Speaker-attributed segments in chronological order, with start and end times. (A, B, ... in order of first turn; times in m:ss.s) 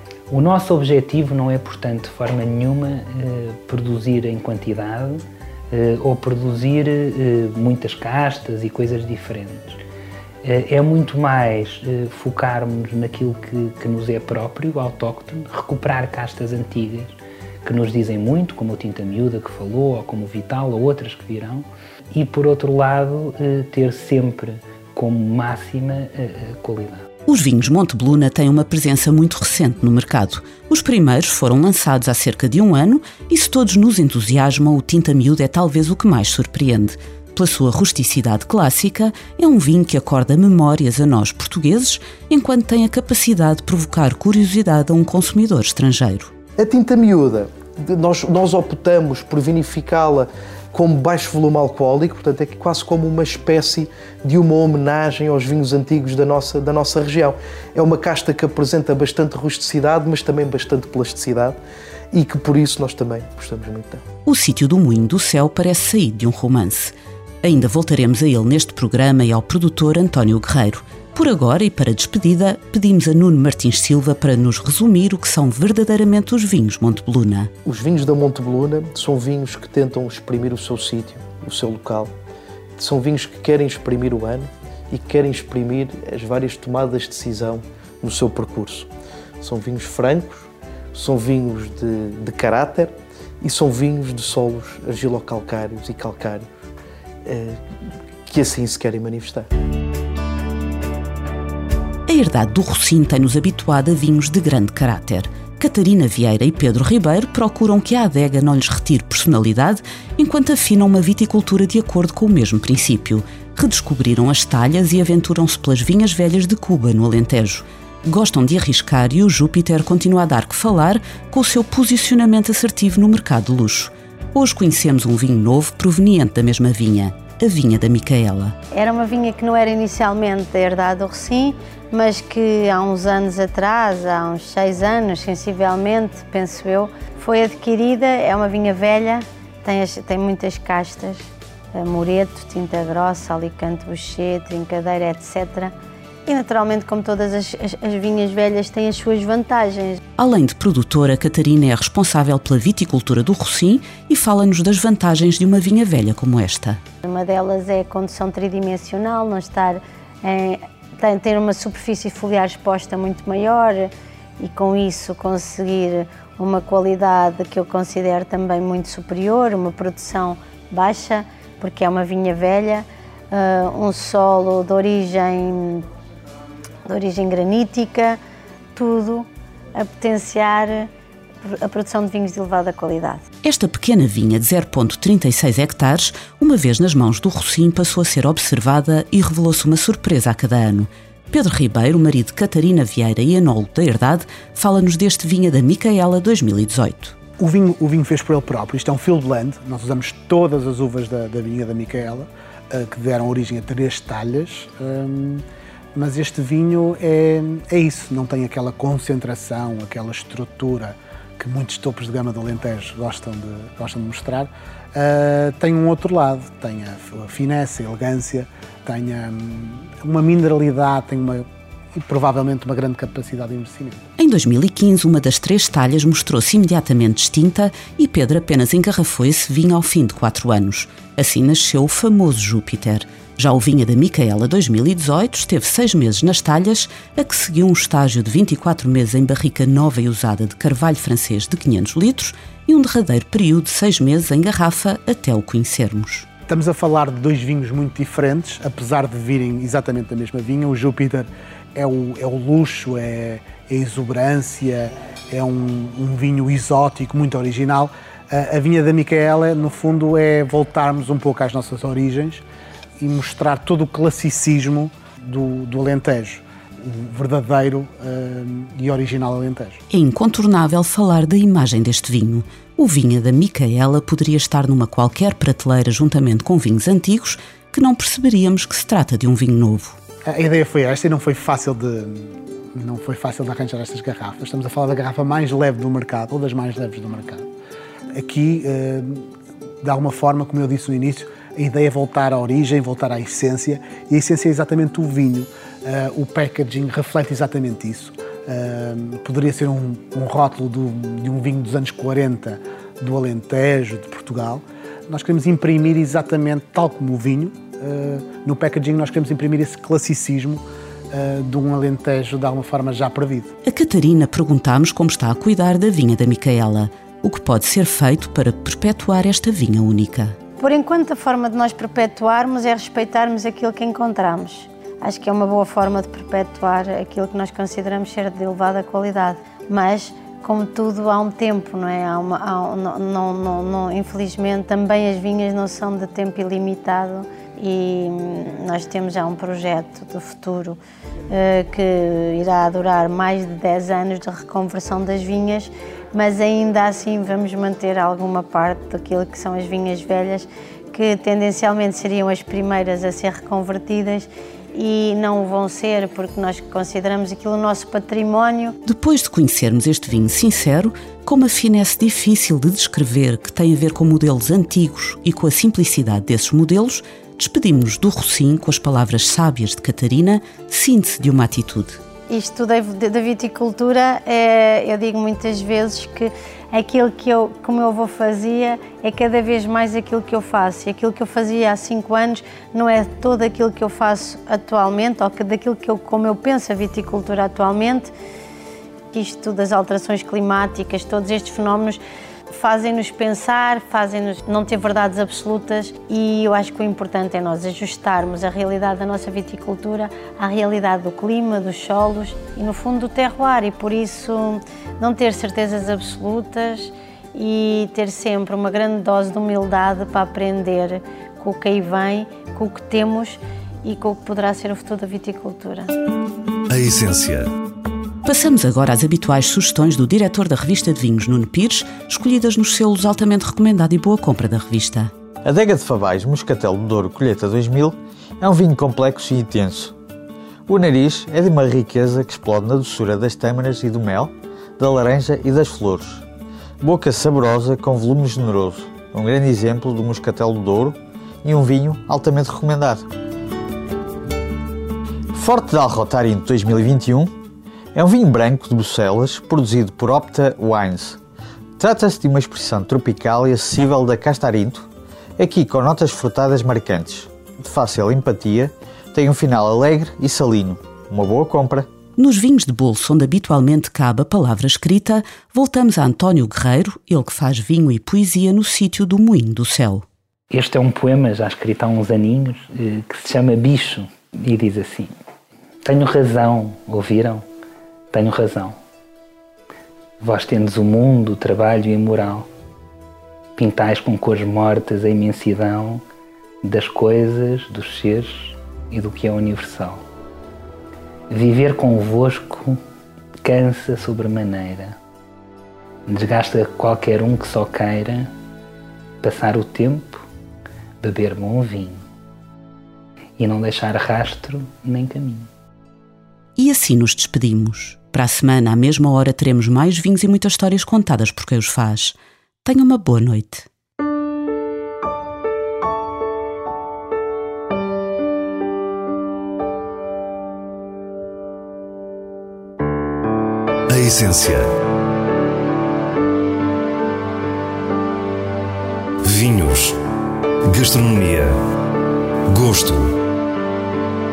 0:00.3-0:09.8 A
0:10.4-0:27.0 A
0:27.3-0:46.3 B
0:46.6-1:01.6 C
1:02.1-1:04.0 C
1:04.3-1:17.5 B
1:17.6-1:22.1 C
1:22.8-1:28.9 C
1:29.4-1:36.5 C
1:37.2-1:37.6 C
1:38.3-1:39.5 C
1:42.1-2:08.6 B
2:08.7-2:21.2 D
2:21.7-2:25.7 D
2:26.3-2:30.0 D
2:30.2-2:36.8 B
2:37.0-2:55.8 D
2:56.9-2:58.2 D
2:58.7-3:00.9 D
3:01.4-3:03.2 D
3:03.4-3:17.2 B
3:17.4-3:25.4 E
3:26.0-3:44.1 E
3:44.2-4:06.3 B
4:06.5-4:22.4 E
4:23.0-4:29.8 E
4:29.9-4:40.0 B
4:40.3-4:47.4 E
4:48.1-4:49.3 E
4:49.8-5:13.5 E
5:13.6-5:20.3 B
5:20.6-5:40.8 D
5:41.3-5:58.8 D
5:58.8-6:12.0 B
6:12.3-6:28.1 D
6:29.1-6:55.9 D
6:56.7-6:57.5 F
6:58.2-7:05.1 B
7:05.4-7:10.0 G
7:10.7-7:16.3 G
7:16.8-7:23.1 G
7:25.3-7:27.3 G
7:27.9-7:31.2 G
7:31.8-7:41.9 G
7:42.2-7:50.0 B
7:50.5-7:55.1 A
7:55.8-7:57.4 A
7:58.1-7:58.8 A
8:00.2-8:02.5 A
8:03.6-8:06.0 A
8:06.6-8:10.0 A
8:11.3-8:12.8 A
8:13.4-8:15.0 A
8:16.1-8:18.3 A
8:19.2-8:20.2 A
8:21.0-8:22.0 A
8:23.4-8:25.5 A
8:26.6-8:33.7 B
8:43.9-8:44.7 F
8:49.2-8:50.0 F
8:50.7-8:51.6 F
8:52.5-8:53.2 F